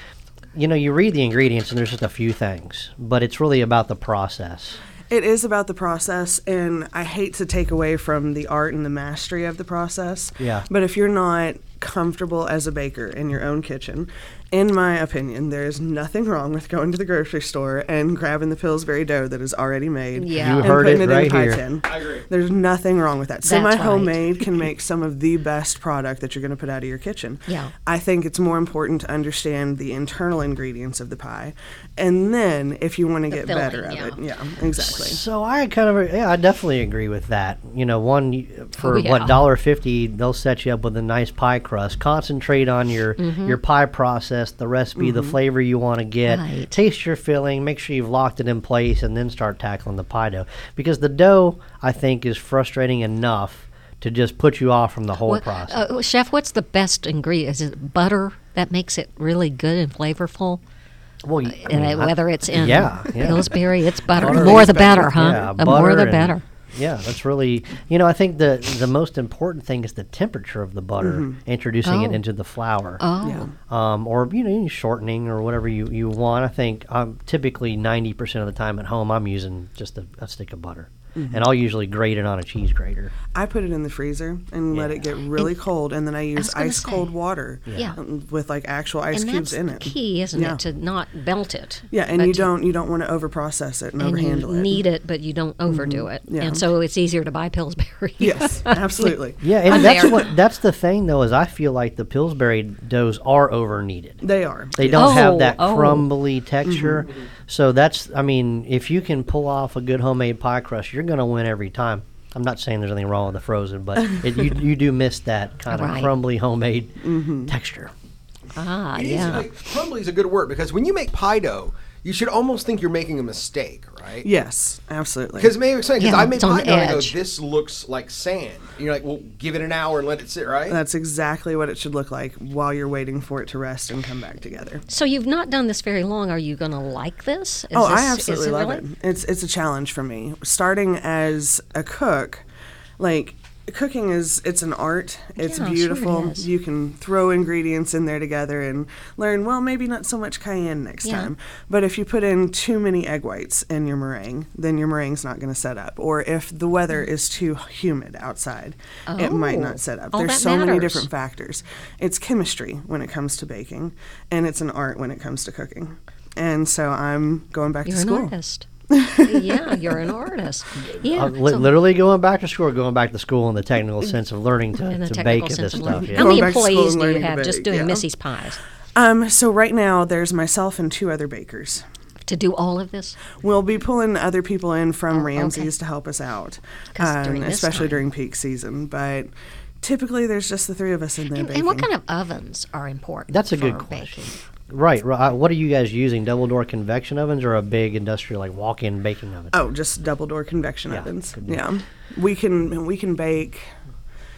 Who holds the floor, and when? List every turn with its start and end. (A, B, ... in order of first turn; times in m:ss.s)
0:00.5-0:04.8 A
0:05.1-0:35.2 B
0:10.4-0:10.6 A
0:20.2-0:21.0 C
0:20.3-0:21.6 A
0:21.8-0:22.2 D
0:23.4-0:24.6 C
0:27.5-0:27.7 C
0:33.3-0:34.2 C
0:34.8-0:55.8 A
0:38.8-0:39.4 C
0:43.2-0:43.6 C
0:45.0-0:45.4 B
0:46.2-0:46.7 C
0:55.2-1:00.6 C
1:01.2-1:03.6 A
1:01.5-1:06.4 C
1:04.1-1:05.5 B
1:04.2-1:13.0 A
1:11.0-1:11.4 B
1:11.8-1:12.2 C
1:13.0-1:13.5 C
1:13.2-1:13.5 B
1:13.6-1:23.1 A
1:21.1-1:21.5 B
1:23.3-1:30.6 B
1:24.7-1:25.0 A
1:26.4-1:27.1 C
1:27.7-1:28.0 C
1:29.1-1:32.5 C
1:31.9-1:34.8 B
1:34.0-1:39.2 C
1:35.7-1:36.6 B
1:38.2-1:40.2 B
1:39.4-1:44.2 A
1:39.7-1:40.3 C
1:44.2-1:45.2 B
1:44.7-1:57.9 A
1:44.9-1:46.1 C
1:46.6-1:47.1 B
1:55.7-1:56.1 C
1:57.0-1:57.5 B
1:58.6-1:59.5 C
1:58.9-2:04.3 D
2:04.2-2:05.5 B
2:05.4-2:10.8 D
2:06.0-2:07.1 C
2:10.7-2:14.8 B
2:14.9-2:18.8 C
2:17.7-2:22.4 B
2:23.0-2:48.3 B
2:25.4-2:26.5 C
2:31.0-2:31.3 C
2:39.1-2:41.1 C
2:47.8-2:48.7 C
2:48.9-2:49.9 B
2:49.2-2:51.7 C
2:50.9-2:56.5 A
2:54.9-2:58.6 C
2:55.9-2:58.0 B
2:58.9-3:01.8 B
3:02.2-3:03.2 C
3:03.4-3:09.3 B
3:05.1-3:05.7 C
3:06.9-3:08.0 C
3:09.8-3:11.9 B
3:11.3-3:14.4 C
3:13.3-3:19.6 A
3:19.5-3:23.7 B
3:20.9-3:21.6 A